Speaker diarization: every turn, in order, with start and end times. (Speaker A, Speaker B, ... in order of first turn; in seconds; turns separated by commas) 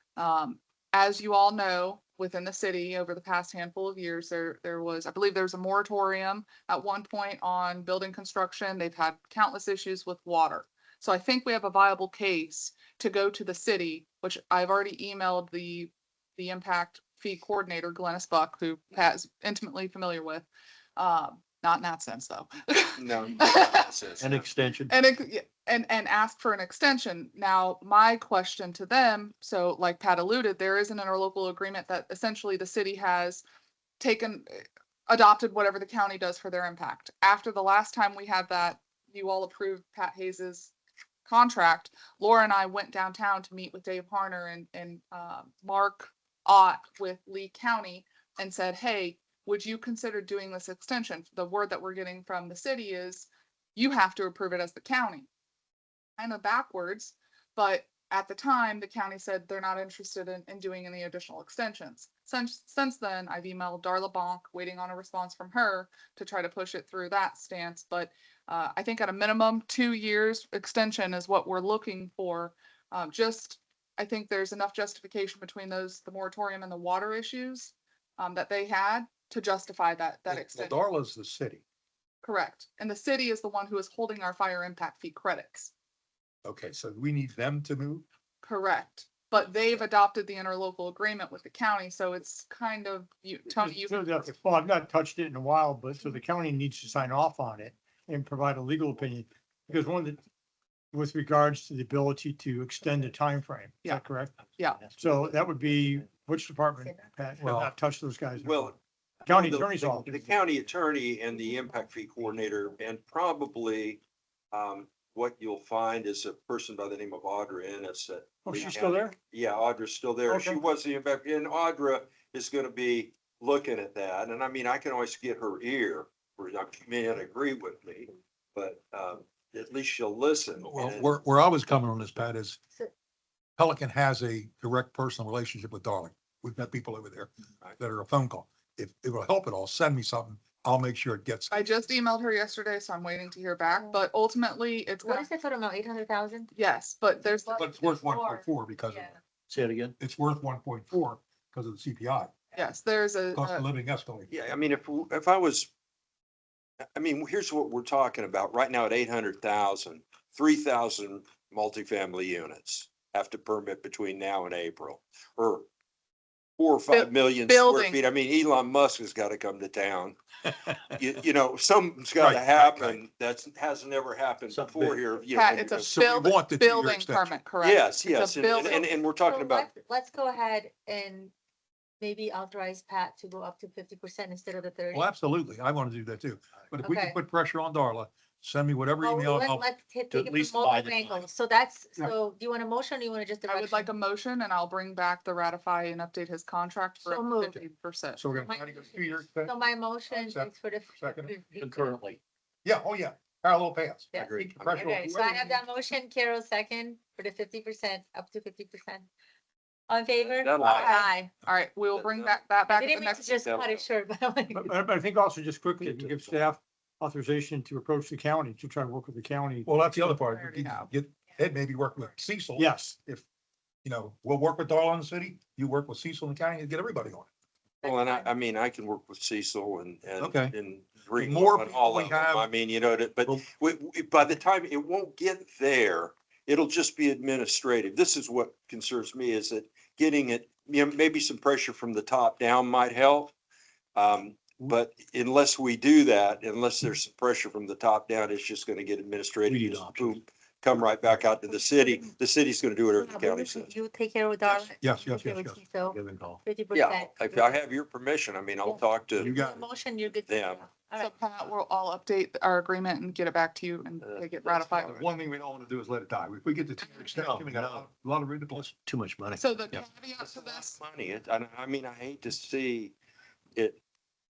Speaker A: 0.2-20.5, Speaker A: 21.0-23.8, Speaker B: 23.0-24.5, Speaker C: 24.2-24.9, Speaker A: 24.9-33.4, Speaker A: 34.0-40.7, Speaker A: 41.3-55.3, Speaker A: 56.2-80.8, Speaker D: 80.3-81.6, Speaker A: 82.2-85.7, Speaker D: 86.4-88.0, Speaker A: 88.4-94.3, Speaker E: 93.6-100.2, Speaker E: 100.9-104.4, Speaker C: 104.6-105.5, Speaker E: 104.9-110.2, Speaker D: 107.4-107.7, Speaker B: 108.4-114.0, Speaker B: 114.5-131.2, Speaker E: 118.4-119.2, Speaker E: 120.3-120.6, Speaker D: 130.6-132.6, Speaker D: 133.6-141.7, Speaker A: 141.5-145.3, Speaker F: 143.7-144.0, Speaker F: 145.0-146.5, Speaker A: 146.5-147.7, Speaker F: 147.2-149.2, Speaker D: 147.5-149.2, Speaker C: 149.5-149.9, Speaker D: 150.0-152.3, Speaker A: 152.6-153.7, Speaker D: 153.3-154.4, Speaker B: 154.3-155.7, Speaker B: 156.9-165.7, Speaker B: 166.6-170.2, Speaker A: 166.9-168.0, Speaker B: 170.9-175.9, Speaker D: 172.2-173.0, Speaker C: 174.5-175.0, Speaker A: 175.3-178.9, Speaker D: 175.7-177.3, Speaker B: 177.6-179.7, Speaker F: 179.2-181.3, Speaker F: 182.0-185.1, Speaker D: 184.9-189.7, Speaker F: 186.8-187.2, Speaker F: 189.0-193.9, Speaker C: 190.1-191.3, Speaker A: 193.5-198.2, Speaker F: 197.0-197.6, Speaker D: 198.2-199.6, Speaker F: 198.3-201.7, Speaker D: 200.1-201.4, Speaker C: 201.6-202.2, Speaker D: 202.6-205.4, Speaker F: 204.2-209.1, Speaker B: 204.2-205.5, Speaker F: 209.9-211.3, Speaker B: 210.2-210.9, Speaker C: 210.6-210.9, Speaker A: 210.7-213.4, Speaker B: 211.9-212.5, Speaker F: 212.7-214.7, Speaker B: 213.0-213.9, Speaker E: 214.5-220.1, Speaker D: 219.7-223.2, Speaker A: 220.0-220.9, Speaker E: 222.6-223.0, Speaker D: 223.8-227.3, Speaker F: 227.8-228.3, Speaker B: 227.8-243.3, Speaker D: 230.2-230.6, Speaker D: 231.1-232.5, Speaker B: 243.9-253.7, Speaker C: 249.5-250.2, Speaker F: 251.5-252.1, Speaker F: 252.9-257.6, Speaker B: 254.5-254.7, Speaker D: 254.8-255.6, Speaker C: 255.9-256.4, Speaker B: 256.7-259.3, Speaker F: 258.6-261.1, Speaker D: 259.2-259.7, Speaker B: 260.2-260.7, Speaker A: 261.0-265.1, Speaker B: 264.0-265.0, Speaker D: 264.9-268.7, Speaker C: 267.1-267.9, Speaker C: 268.5-269.4, Speaker A: 269.4-270.8, Speaker B: 270.2-272.9, Speaker B: 273.6-273.8